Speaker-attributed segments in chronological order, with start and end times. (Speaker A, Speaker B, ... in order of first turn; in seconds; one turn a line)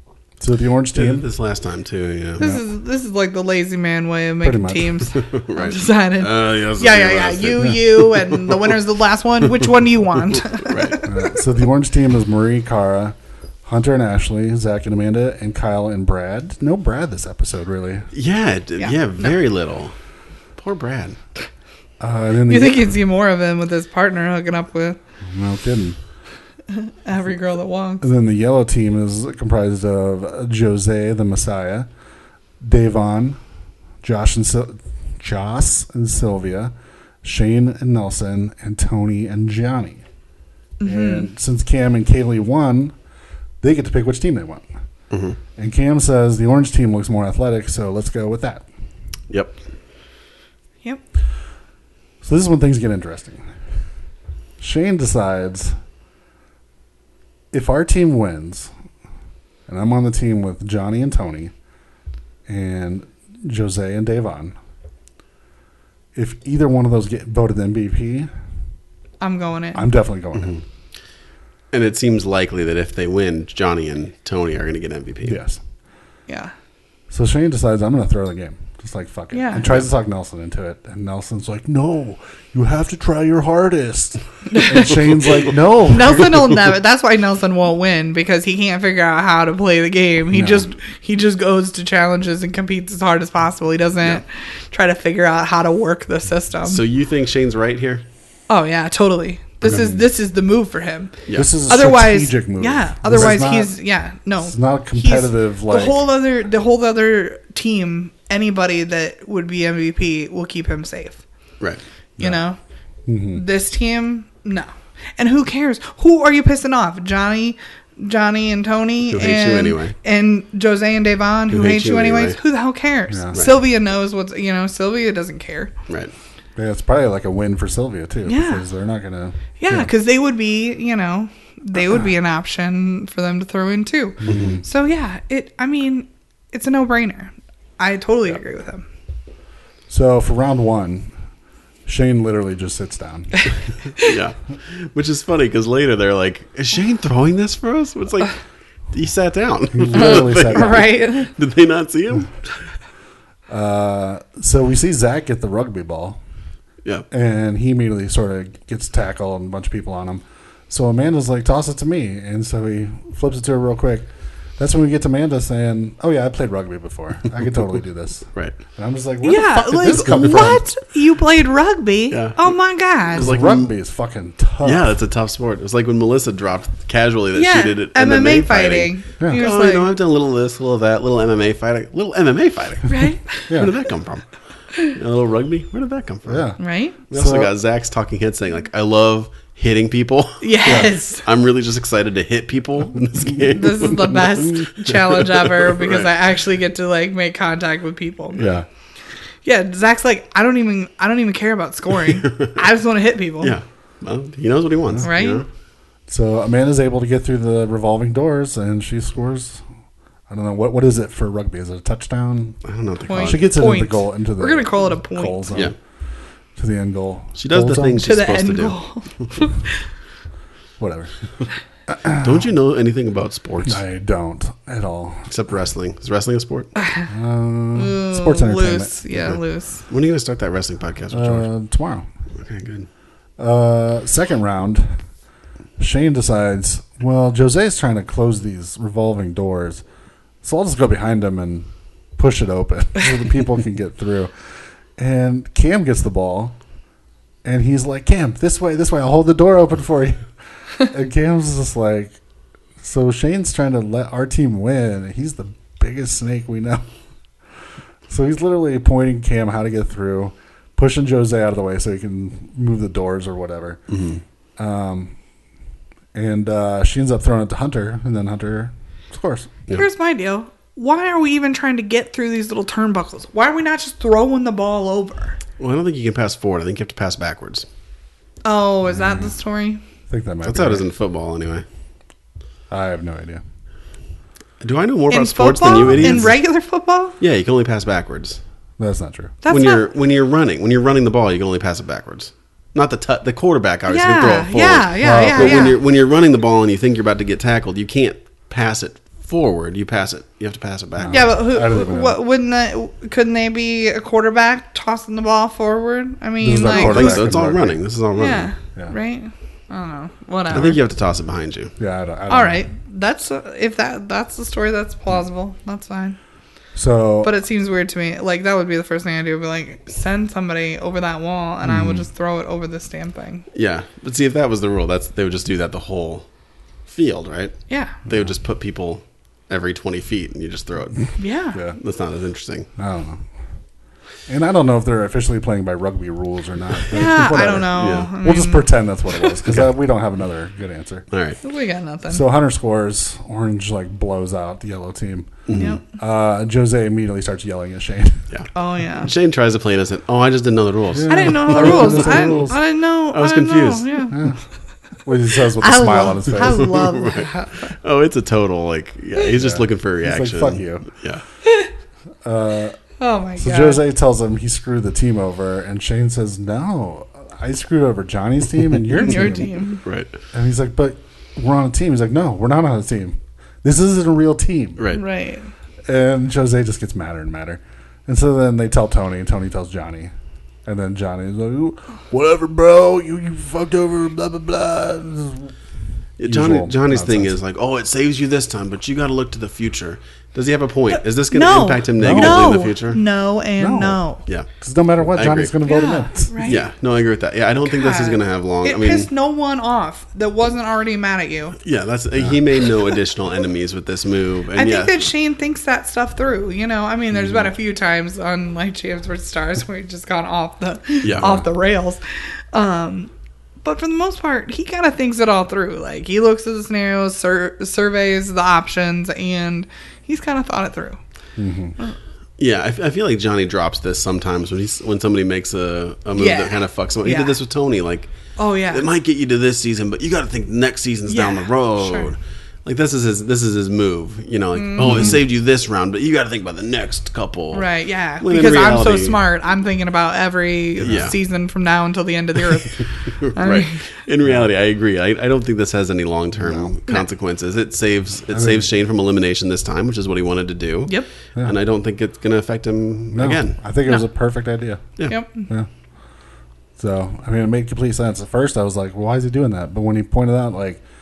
Speaker A: 0.4-1.2
Speaker B: 0.9-2.4
Speaker C: 2.4-11.4
Speaker A: 4.4-5.0
Speaker B: 5.1-8.7
Speaker B: 10.3-11.0
Speaker A: 11.0-18.1
Speaker B: 18.1-19.9
Speaker C: 18.8-19.3
Speaker B: 20.6-21.2
Speaker A: 22.0-22.9
Speaker C: 22.5-25.0
Speaker A: 25.3-26.0
Speaker C: 26.7-28.1
Speaker A: 28.0-31.9
Speaker A: 32.6-33.4
Speaker A: 34.0-40.0
Speaker C: 40.8-41.3
Speaker A: 40.9-42.9
Speaker A: 43.6-44.7
Speaker B: 45.1-45.4
Speaker A: 45.6-48.6
Speaker B: 49.3-49.5
Speaker A: 52.2-53.5
Speaker A: 54.6-55.8
Speaker A: 57.5-58.7
Speaker A: 59.7-61.5
Speaker A: 62.5-64.5
Speaker A: 66.1-68.3
Speaker C: 69.2-69.9
Speaker A: 69.7-70.6
Speaker B: 71.7-75.4
Speaker A: 75.2-75.6
Speaker C: 76.3-76.5
Speaker A: 77.1-86.5
Speaker C: 79.3-79.7
Speaker C: 84.5-84.9
Speaker C: 85.8-96.8
Speaker A: 90.3-90.7
Speaker B: 96.6-98.0
Speaker C: 98.5-111.2
Speaker A: 99.6-100.0
Speaker B: 101.3-101.5
Speaker A: 101.3-103.7
Speaker A: 104.4-106.0
Speaker C: 112.2-112.6
Speaker A: 113.0-113.4
Speaker C: 113.3-125.7
Speaker B: 119.1-119.9
Speaker B: 121.5-122.4
Speaker A: 123.1-123.4
Speaker B: 125.9-126.1
Speaker A: 126.5-129.9
Speaker C: 128.2-128.6
Speaker C: 129.6-138.8
Speaker A: 134.2-134.6
Speaker B: 134.2-134.6
Speaker A: 139.9-141.1
Speaker A: 141.8-143.4
Speaker B: 144.0-148.4
Speaker B: 148.9-152.6
Speaker A: 149.7-150.9
Speaker C: 149.9-151.3
Speaker A: 153.5-156.2
Speaker A: 157.1-170.6
Speaker C: 169.2-173.3
Speaker B: 172.1-172.5
Speaker B: 173.0-173.7
Speaker A: 173.1-174.9
Speaker B: 174.6-184.2
Speaker C: 177.3-179.9
Speaker A: 179.2-179.5
Speaker C: 182.9-183.5
Speaker A: 183.5-183.7
Speaker B: 184.8-186.4
Speaker A: 186.2-186.6
Speaker C: 186.6-187.0
Speaker A: 187.1-187.5
Speaker B: 187.1-196.1
Speaker C: 190.4-191.2
Speaker A: 190.7-190.9
Speaker C: 193.5-198.5
Speaker A: 198.4-198.7
Speaker C: 199.4-203.6
Speaker B: 203.4-205.4
Speaker C: 205.0-205.4
Speaker A: 206.1-209.6
Speaker A: 210.3-212.6
Speaker B: 212.6-213.5
Speaker C: 213.1-215.6
Speaker A: 213.2-215.7
Speaker A: 216.6-218.0
Speaker B: 217.3-218.8
Speaker C: 218.0-219.8
Speaker A: 220.8-221.1
Speaker A: 221.9-222.3
Speaker B: 222.1-223.8
Speaker A: 223.6-225.3
Speaker B: 225.3-226.7
Speaker C: 226.8-227.1
Speaker A: 227.1-229.0
Speaker C: 227.7-229.8
Speaker B: 229.9-231.5
Speaker A: 231.1-232.1
Speaker B: 232.4-232.9
Speaker A: 233.4-234.9
Speaker A: 235.8-239.8
Speaker A: 240.4-244.3
Speaker A: 245.0-246.6
Speaker A: 247.4-252.2
Speaker A: 252.8-256.9
Speaker A: 258.1-263.8
Speaker B: 263.9-264.2
Speaker A: 264.6-265.1
Speaker A: 266.1-269.5
Speaker C: 269.7-275.4
Speaker B: 275.6-277.7
Speaker C: 278.4-279.8
Speaker A: 280.1-280.9
Speaker B: 280.4-281.6
Speaker A: 282.7-283.4
Speaker B: 284.6-286.3
Speaker C: 285.1-287.1
Speaker A: 285.8-286.3
Speaker B: 287.2-288.4
Speaker A: 288.8-289.4
Speaker C: 289.4-289.9
Speaker B: 289.5-301.3
Speaker C: 293.9-295.8
Speaker A: 295.0-295.7
Speaker A: 301.0-302.2
Speaker C: 301.1-307.2
Speaker A: 306.4-307.8
Speaker B: 306.6-308.5
Speaker C: 308.1-310.8
Speaker B: 310.5-311.7
Speaker A: 311.8-312.6
Speaker C: 312.3-316.2
Speaker A: 316.7-317.3
Speaker C: 317.2-323.4
Speaker A: 321.6-322.1
Speaker B: 323.5-326.2
Speaker B: 326.9-331.1
Speaker C: 327.7-328.0
Speaker C: 331.2-331.6
Speaker B: 331.8-332.7
Speaker A: 332.8-333.2
Speaker A: 334.3-341.0
Speaker C: 336.9-338.7
Speaker B: 337.0-338.1
Speaker B: 341.1-341.4
Speaker C: 341.4-342.2
Speaker A: 342.1-348.3
Speaker B: 345.5-345.8
Speaker C: 345.5-345.8
Speaker B: 348.3-352.5
Speaker C: 348.5-349.1
Speaker A: 350.9-352.6
Speaker C: 351.1-354.3
Speaker B: 353.1-354.0
Speaker A: 354.1-354.4
Speaker A: 355.0-356.8
Speaker C: 355.6-357.7
Speaker B: 356.4-361.2
Speaker A: 359.4-360.9
Speaker A: 362.2-362.8
Speaker C: 363.0-363.8
Speaker A: 363.4-369.5
Speaker C: 368.9-369.8
Speaker B: 369.8-370.1
Speaker A: 370.3-374.8
Speaker C: 374.9-375.5
Speaker A: 375.9-380.1
Speaker A: 380.6-385.5
Speaker B: 386.2-393.0
Speaker A: 386.2-387.4
Speaker C: 391.3-394.2
Speaker A: 392.0-392.5
Speaker A: 393.6-394.0
Speaker A: 394.6-396.5
Speaker B: 395.1-395.5
Speaker C: 395.6-396.6
Speaker B: 396.4-399.1
Speaker C: 397.7-401.6
Speaker B: 401.6-404.9
Speaker C: 404.6-413.1
Speaker B: 411.0-411.3
Speaker A: 411.1-411.4
Speaker C: 413.6-421.0
Speaker A: 421.4-421.8
Speaker B: 422.4-428.1
Speaker C: 426.1-427.4
Speaker C: 428.4-428.9
Speaker B: 428.7-437.7
Speaker C: 431.1-432.1
Speaker C: 434.5-435.2
Speaker A: 434.8-435.2
Speaker C: 437.5-443.9
Speaker B: 438.2-439.2
Speaker B: 440.8-441.1
Speaker B: 443.1-453.6
Speaker A: 446.4-446.8
Speaker A: 448.3-448.6
Speaker A: 453.1-455.7
Speaker C: 455.1-455.5
Speaker A: 456.8-460.8